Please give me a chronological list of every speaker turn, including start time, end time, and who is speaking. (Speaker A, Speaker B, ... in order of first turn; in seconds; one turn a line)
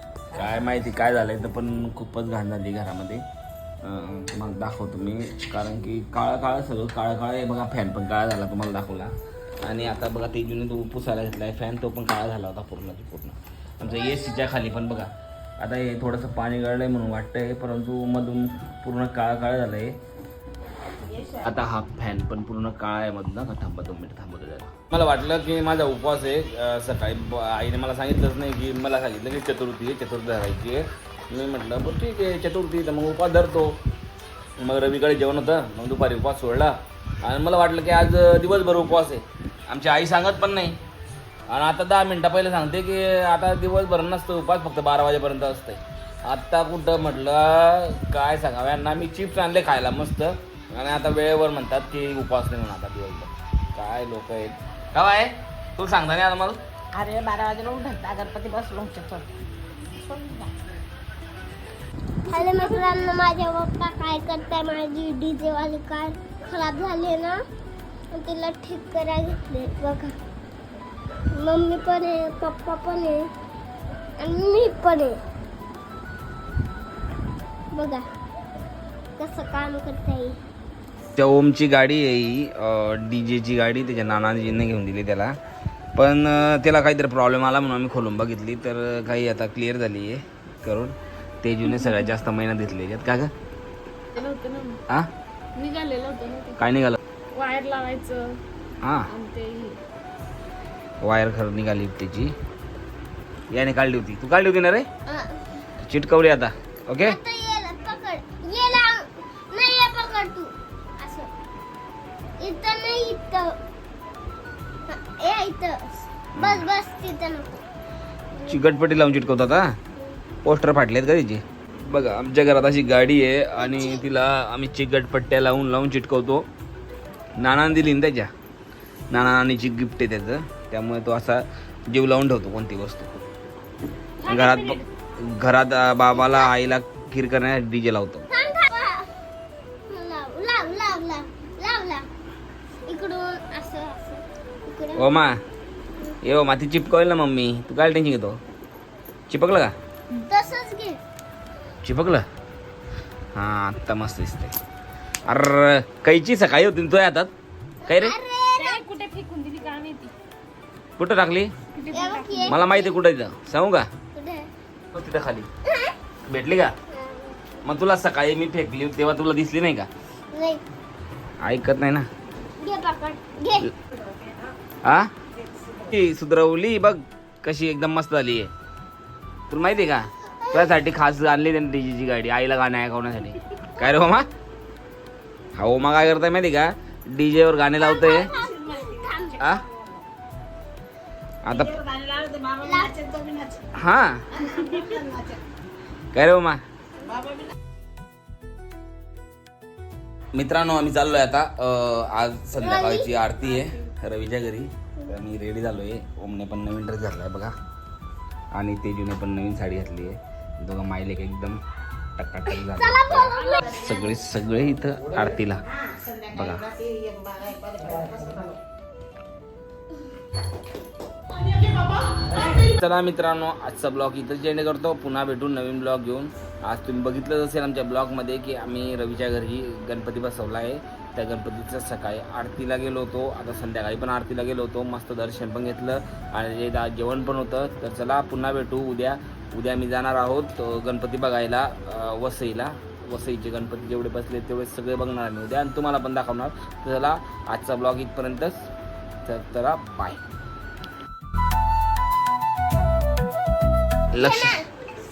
Speaker A: 0.3-3.2
Speaker A: 3.8-20.0
Speaker B: 20.9-21.6
Speaker A: 21.4-33.8
Speaker A: 34.6-40.8
Speaker A: 41.5-56.6
Speaker B: 56.9-59.3
Speaker B: 59.8-60.6
Speaker C: 62.2-67.4
Speaker D: 62.5-62.8
Speaker C: 68.1-70.1
Speaker C: 71.3-73.3
Speaker C: 74.2-75.2
Speaker C: 77.7-78.0
Speaker C: 79.2-80.4
Speaker A: 81.2-85.3
Speaker A: 85.9-93.3
Speaker D: 94.1-94.8
Speaker D: 95.5-96.6
Speaker A: 96.6-97.0
Speaker D: 97.3-98.4
Speaker A: 98.8-99.1
Speaker D: 99.1-99.8
Speaker A: 101.0-102.3
Speaker A: 103.5-104.9
Speaker C: 105.0-105.4
Speaker A: 105.8-107.2
Speaker C: 107.0-111.3
Speaker C: 112.4-113.5
Speaker C: 114.9-117.6
Speaker A: 116.3-116.7
Speaker C: 118.4-118.7
Speaker A: 118.5-119.8
Speaker A: 120.4-126.5
Speaker C: 123.6-124.0
Speaker A: 127.4-128.3
Speaker A: 129.1-133.2
Speaker D: 134.2-134.8
Speaker A: 134.2-138.3
Speaker C: 136.1-136.5
Speaker C: 138.3-139.1
Speaker C: 139.9-142.1
Speaker C: 142.9-145.3
Speaker A: 145.0-145.4
Speaker A: 146.2-148.4
Speaker A: 149.3-149.7
Speaker C: 150.2-151.0
Speaker A: 151.8-152.2
Speaker A: 153.3-154.5
Speaker A: 155.2-157.3
Speaker C: 157.8-158.8
Speaker A: 157.9-158.2
Speaker D: 158.6-160.1
Speaker A: 161.0-161.5
Speaker D: 161.8-162.5
Speaker C: 161.9-163.0
Speaker A: 162.4-163.9
Speaker C: 164.1-164.5
Speaker A: 164.9-165.5
Speaker C: 165.6-165.9
Speaker A: 166.3-166.7
Speaker C: 166.9-167.5
Speaker A: 167.6-169.9
Speaker C: 170.3-170.6
Speaker A: 171.4-172.1
Speaker C: 172.6-173.7
Speaker A: 174.8-175.1
Speaker A: 175.8-178.5
Speaker A: 179.5-184.3
Speaker C: 180.4-180.8
Speaker A: 185.6-188.3
Speaker C: 187.8-189.5
Speaker B: 188.4-189.8
Speaker A: 191.4-191.8
Speaker B: 191.5-193.6
Speaker C: 192.6-192.9
Speaker A: 193.7-194.4
Speaker B: 194.3-195.4
Speaker A: 196.1-196.6
Speaker B: 197.1-197.4
Speaker A: 200.3-207.5
Speaker C: 202.6-203.1
Speaker A: 208.5-211.6
Speaker A: 212.2-215.6
Speaker C: 212.5-213.7
Speaker B: 215.8-218.6
Speaker A: 216.3-216.7
Speaker A: 222.4-248.7
Speaker A: 249.2-250.2
Speaker A: 254.1-254.6
Speaker C: 254.1-254.7